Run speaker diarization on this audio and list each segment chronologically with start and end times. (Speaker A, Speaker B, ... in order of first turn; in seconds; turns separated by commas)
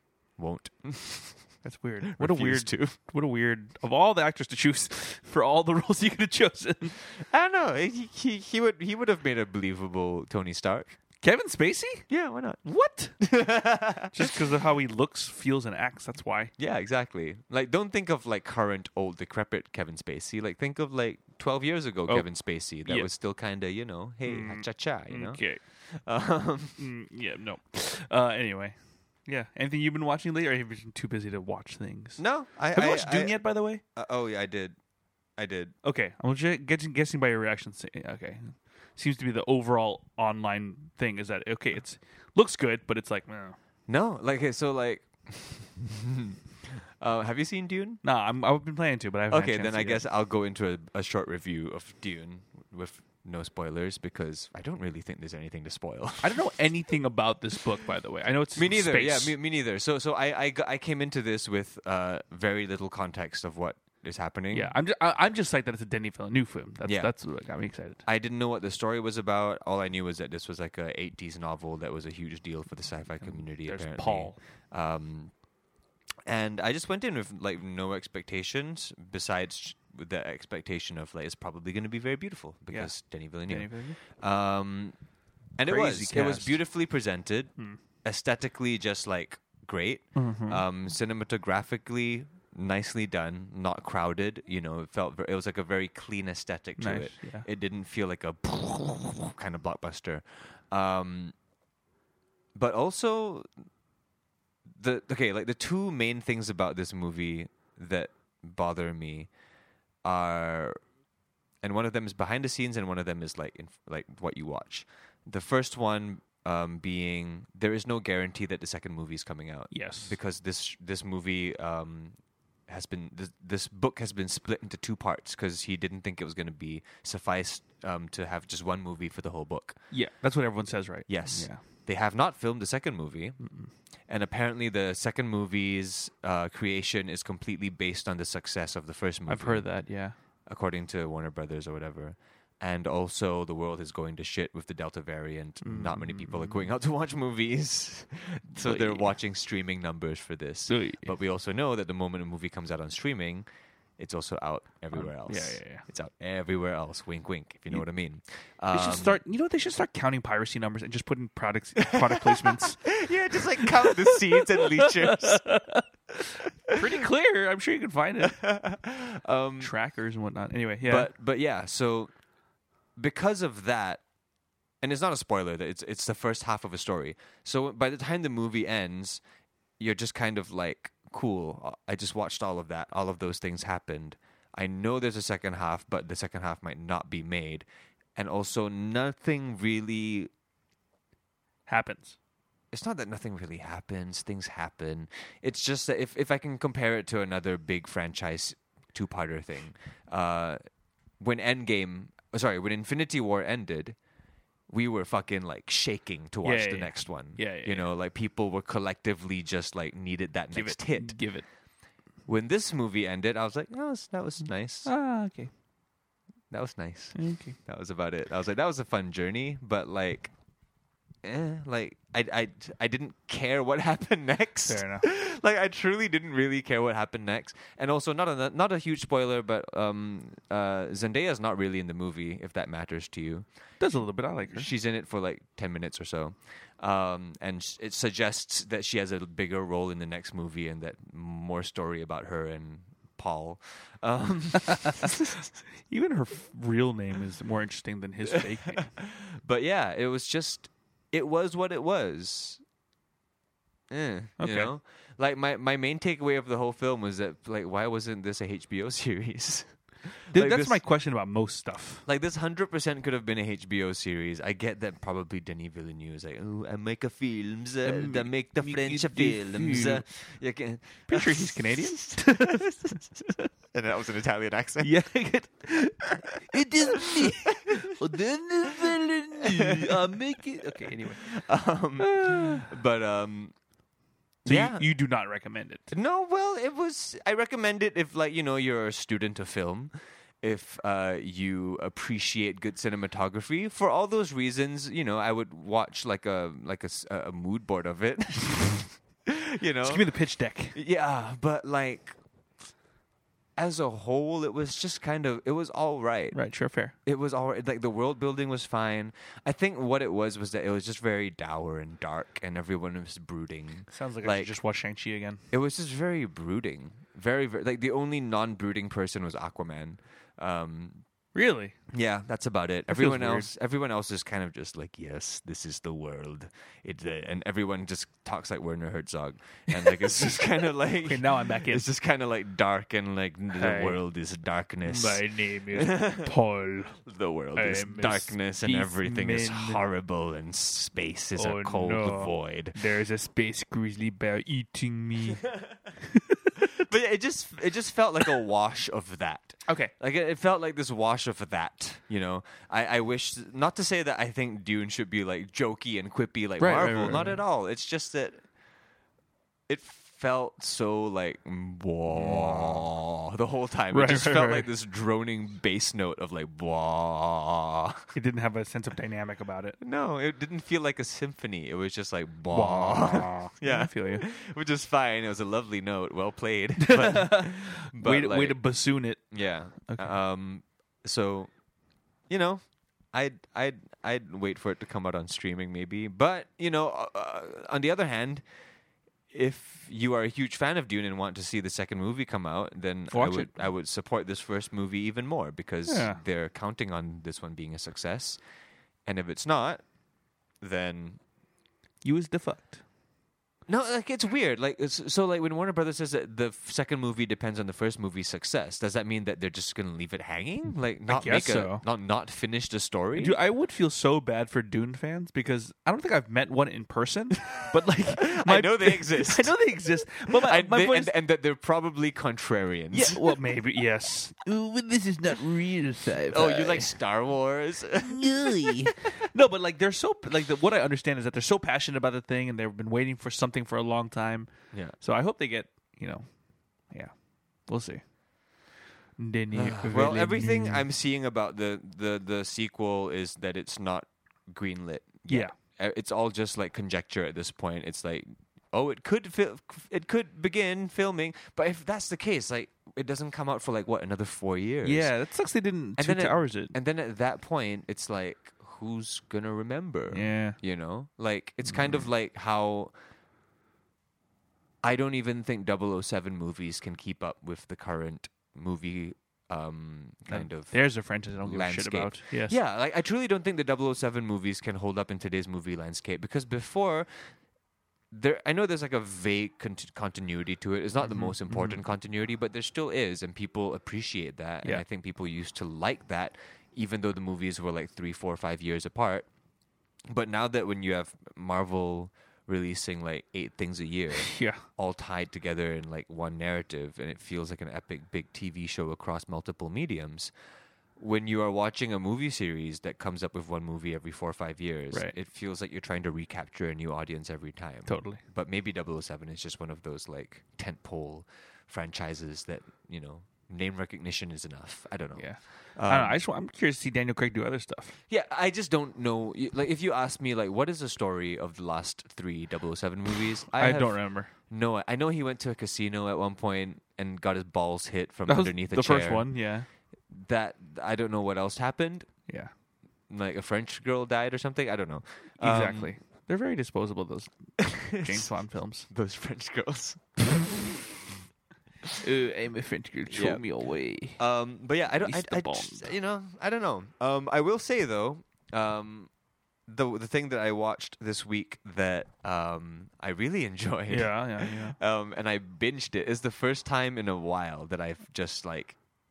Speaker A: 0.4-1.6, Speaker B: 1.6-7.0, Speaker A: 2.1-3.0, Speaker A: 7.2-10.9, Speaker B: 11.2-12.1, Speaker A: 12.1-12.7, Speaker B: 12.6-13.2, Speaker A: 13.2-14.4, Speaker B: 14.1-16.5, Speaker A: 16.6-26.8, Speaker B: 22.8-23.1, Speaker B: 24.2-25.6, Speaker B: 26.8-33.8, Speaker A: 32.2-33.4, Speaker A: 33.9-34.8, Speaker A: 35.4-35.7, Speaker B: 35.8-43.6, Speaker A: 43.9-48.0, Speaker B: 48.0-50.0, Speaker A: 49.3-56.5, Speaker B: 56.2-59.4, Speaker A: 58.6-64.7, Speaker B: 64.5-68.0, Speaker A: 66.8-67.1, Speaker A: 68.0-75.3, Speaker B: 73.2-74.4, Speaker A: 76.3-85.0, Speaker B: 82.7-84.0, Speaker A: 85.6-101.3, Speaker B: 85.7-86.6, Speaker B: 90.2-90.6, Speaker B: 96.8-97.5, Speaker A: 102.5-103.5, Speaker A: 104.8-109.3, Speaker A: 110.0-110.8, Speaker A: 111.6-122.2, Speaker B: 119.7-120.2, Speaker A: 122.7-129.8, Speaker B: 129.9-131.6, Speaker A: 131.1-133.4, Speaker B: 133.4-133.7, Speaker A: 134.1-139.8, Speaker B: 139.3-140.2, Speaker A: 140.4-153.5, Speaker B: 145.6-146.7, Speaker B: 148.6-149.2, Speaker B: 150.7-151.1, Speaker A: 154.0-159.2, Speaker B: 154.9-155.8, Speaker B: 158.7-165.8, Speaker A: 162.2-165.4, Speaker B: 166.7-168.4, Speaker A: 168.2-169.7, Speaker B: 169.6-171.1, Speaker A: 170.8-172.1, Speaker A: 173.0-174.0, Speaker A: 174.8-179.2, Speaker A: 179.8-190.3, Speaker B: 191.7-192.2, Speaker A: 192.7-200.6, Speaker A: 201.2-204.0, Speaker A: 204.7-211.2, Speaker B: 206.4-207.8, Speaker B: 210.5-211.5, Speaker A: 212.3-214.9, Speaker B: 214.8-215.5, Speaker A: 216.5-220.3, Speaker B: 217.2-217.6, Speaker A: 221.2-233.4, Speaker B: 224.7-225.1, Speaker B: 233.8-234.7, Speaker A: 234.5-245.4, Speaker B: 245.9-248.9, Speaker A: 248.3-252.6, Speaker A: 253.9-260.8, Speaker B: 254.4-254.7, Speaker B: 260.3-262.1, Speaker A: 262.1-273.0, Speaker B: 267.8-270.0, Speaker B: 271.1-273.0, Speaker A: 273.7-275.0, Speaker B: 274.8-281.4, Speaker A: 277.1-277.9, Speaker A: 278.8-280.0, Speaker A: 281.2-283.5, Speaker B: 282.0-282.7, Speaker A: 284.4-284.9, Speaker B: 284.4-285.9, Speaker A: 285.9-300.1, Speaker B: 299.8-300.8, Speaker A: 300.7-302.2, Speaker A: 303.6-306.4, Speaker B: 306.3-306.9, Speaker A: 307.1-314.5, Speaker B: 313.9-315.4, Speaker A: 315.5-321.1, Speaker B: 321.3-321.8, Speaker A: 321.9-336.3, Speaker B: 322.9-323.5, Speaker B: 329.7-330.4, Speaker B: 331.0-331.9, Speaker B: 333.5-334.0, Speaker B: 334.9-337.0, Speaker A: 337.1-342.8, Speaker B: 337.6-339.8, Speaker B: 341.4-346.5, Speaker A: 346.6-358.4, Speaker B: 349.7-349.9, Speaker B: 356.6-357.4, Speaker A: 359.7-368.1, Speaker B: 362.1-362.9, Speaker B: 363.9-364.7, Speaker B: 368.1-369.8, Speaker A: 369.8-378.6, Speaker B: 372.5-374.2, Speaker B: 376.8-379.3, Speaker A: 379.3-381.5, Speaker B: 379.9-380.2, Speaker A: 382.3-388.4, Speaker A: 389.3-398.4, Speaker B: 393.1-393.5, Speaker B: 395.9-396.2, Speaker A: 399.1-399.8, Speaker A: 400.6-401.2, Speaker B: 402.0-402.8, Speaker A: 403.7-413.4, Speaker B: 411.1-411.8, Speaker B: 413.2-421.1, Speaker A: 418.0-419.6, Speaker A: 420.3-423.3, Speaker B: 422.9-427.0, Speaker A: 426.3-429.2, Speaker B: 428.0-436.3, Speaker B: 437.7-438.0, Speaker B: 439.2-440.9, Speaker A: 439.5-455.1, Speaker B: 445.3-445.5, Speaker B: 454.8-456.7, Speaker A: 456.0-462.9, Speaker B: 460.1-460.6, Speaker B: 461.7-462.0, Speaker A: 464.8-470.8, Speaker B: 470.3-472.6, Speaker A: 471.4-477.3, Speaker A: 478.1-489.3, Speaker B: 481.0-481.8, Speaker A: 490.1-500.3, Speaker B: 494.2-494.6, Speaker A: 501.0-516.2, Speaker B: 507.9-508.2, Speaker B: 515.2-518.0, Speaker A: 518.1-529.3, Speaker B: 523.5-524.3, Speaker B: 528.3-529.7, Speaker A: 530.1-532.1, Speaker A: 533.1-535.9, Speaker B: 535.4-538.9, Speaker A: 537.6-538.3, Speaker A: 538.9-541.0, Speaker B: 542.0-544.2, Speaker A: 543.1-543.4, Speaker A: 544.2-549.1, Speaker B: 545.0-545.9, Speaker A: 549.7-558.8, Speaker B: 553.9-554.8